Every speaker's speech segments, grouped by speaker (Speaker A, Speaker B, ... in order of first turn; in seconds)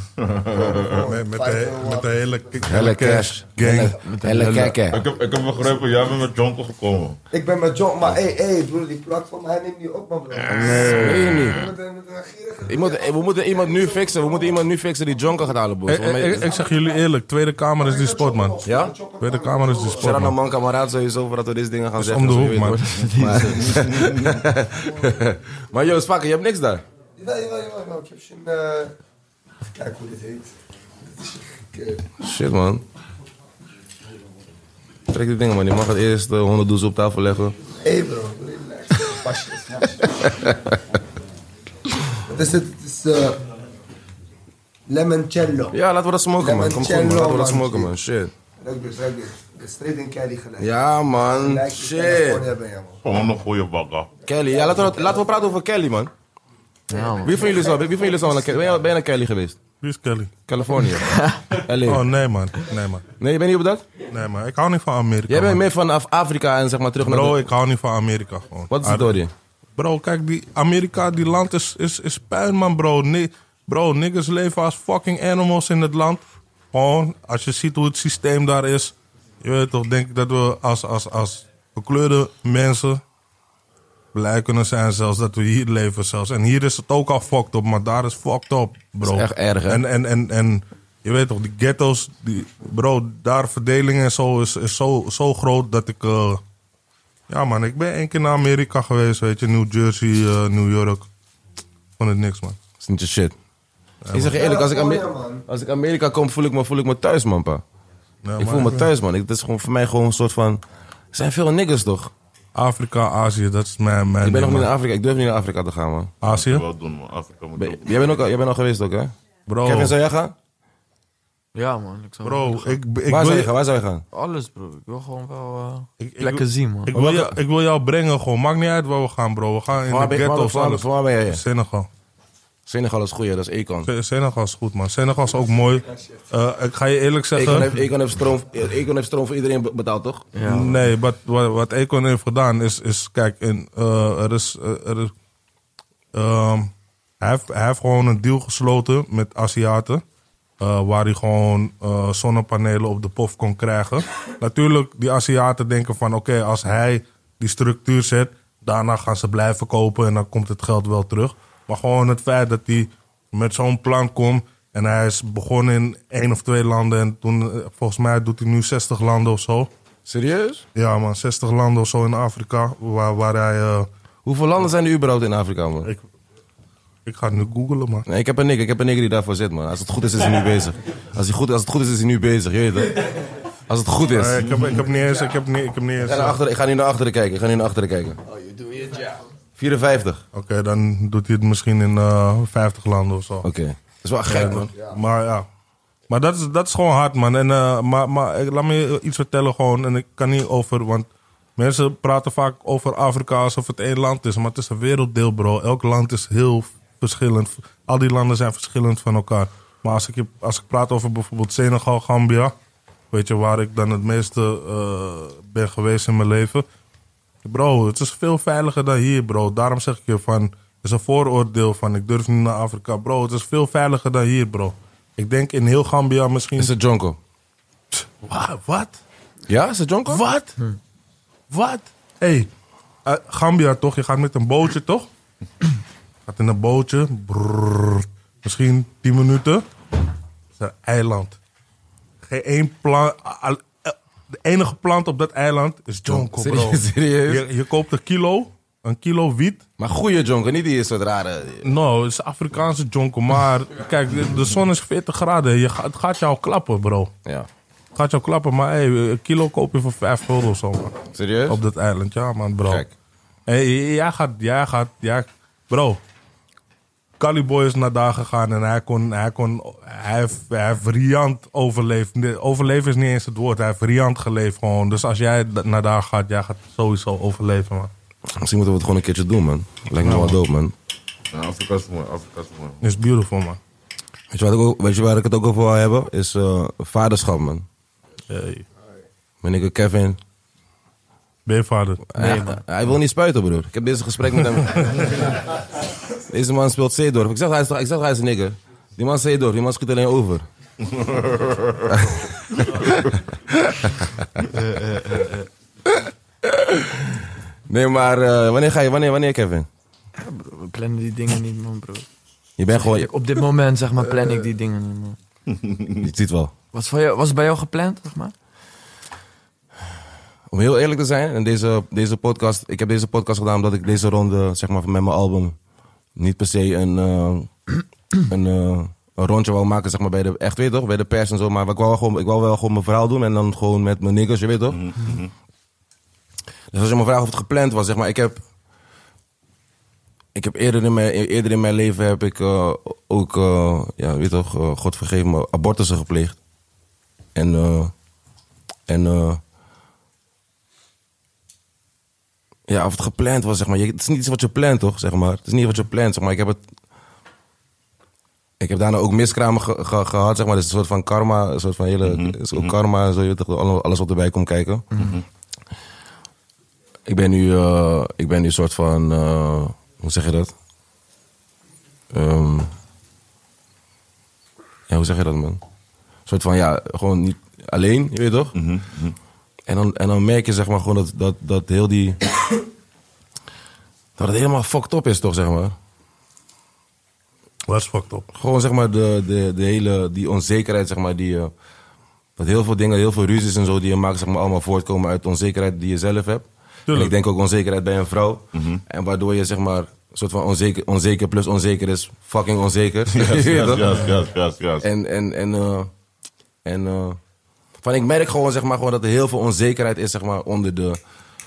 Speaker A: 0.2-1.1, 4.9-7.2, 10.5-11.4, 53.0-54.1, 116.2-118.1, 281.3-282.8, 300.9-301.8, 315.5-316.0, 334.7-335.3, 362.0-362.7, 365.0-365.2, 378.6-379.1, 398.5-398.8, 403.1-404.9
Speaker B: 0.5-2.4, 7.3-14.6, 16.3-17.0, 17.8-20.3, 27.2-29.0, 29.7-30.5, 31.1-32.1, 37.8-40.5, 42.2-43.5, 44.9-45.8, 46.4-47.9, 48.6-53.0, 54.5-55.2, 104.3-105.5, 188.3-189.2, 194.8-195.0
Speaker C: 1.0-4.0, 15.9-18.6, 19.2-20.4, 22.0-22.9, 59.8-60.3, 61.9-63.0, 64.1-65.6, 67.0-69.1, 69.8-83.0, 84.1-96.4, 97.3-101.1, 102.0-102.6, 104.0-104.3, 108.2-108.9, 112.5-114.7, 116.2-116.7, 119.5-120.0, 122.2-123.5, 126.0-131.9, 133.9-137.7, 140.4-145.1, 146.1-150.0, 150.6-169.7, 170.8-173.9, 177.1-178.1, 184.1-186.4, 190.3-193.5, 194.3-195.5, 196.1-212.6, 213.1-216.7, 217.4-226.7, 227.9-229.0, 230.1-230.6, 231.5-232.5, 233.1-235.1, 236.3-239.7, 240.6-241.4, 242.3-249.6, 251.6-257.1, 257.9-260.9, 261.5-262.8, 263.5-266.0, 267.2-277.9, 280.0-280.4, 282.8-283.6, 288.3-288.6, 291.5-292.1, 387.7-388.3, 396.9-397.2
Speaker D: 2.6-5.0, 10.8-11.6, 12.7-16.5, 18.6-18.9, 20.0-26.8, 32.2-32.8, 35.1-37.5, 45.7-48.3, 50.6-52.5, 54.3-56.1, 57.2-59.6, 60.5-62.0, 63.2-63.9, 65.3-67.5, 68.7-69.3, 89.0-89.8, 102.8-103.3, 104.1-107.6, 108.4-110.6, 111.1-112.1, 114.2-116.1, 117.6-120.3, 123.1-124.0, 126.9-127.3, 129.9-131.4, 132.7-133.9, 137.3-140.3, 170.1-170.6, 174.2-175.9, 178.1-183.1, 183.7-184.5, 186.0-188.2, 189.6-190.2, 193.4-194.7, 226.6-227.2, 229.5-230.2, 246.1-247.4, 249.8-251.7, 261.1-261.6, 262.7-262.9, 278.3-280.7, 284.3-287.6, 289.4-290.2, 292.1-295.3, 296.3-300.5, 301.9-304.5, 305.9-309.7, 312.6-313.1, 316.0-316.5, 320.5-325.6, 326.2-327.5, 328.2-334.8, 336.7-338.4, 340.4-346.4, 347.4-347.9, 348.9-349.4, 352.7-356.6, 358.6-364.9, 367.1-370.5, 372.1-372.7, 374.9-375.6, 376.3-378.6, 379.7-382.2, 384.2-385.8, 388.3-391.5, 392.4-404.0, 404.8-405.9, 406.6-407.2, 407.8-411.0
Speaker E: 3.9-4.8, 22.6-24.0, 56.9-57.4, 61.1-61.5, 121.5-122.8, 124.1-127.1, 140.3-140.8, 292.2-292.6, 304.6-305.4, 310.2-312.1, 312.7-315.2, 316.7-318.3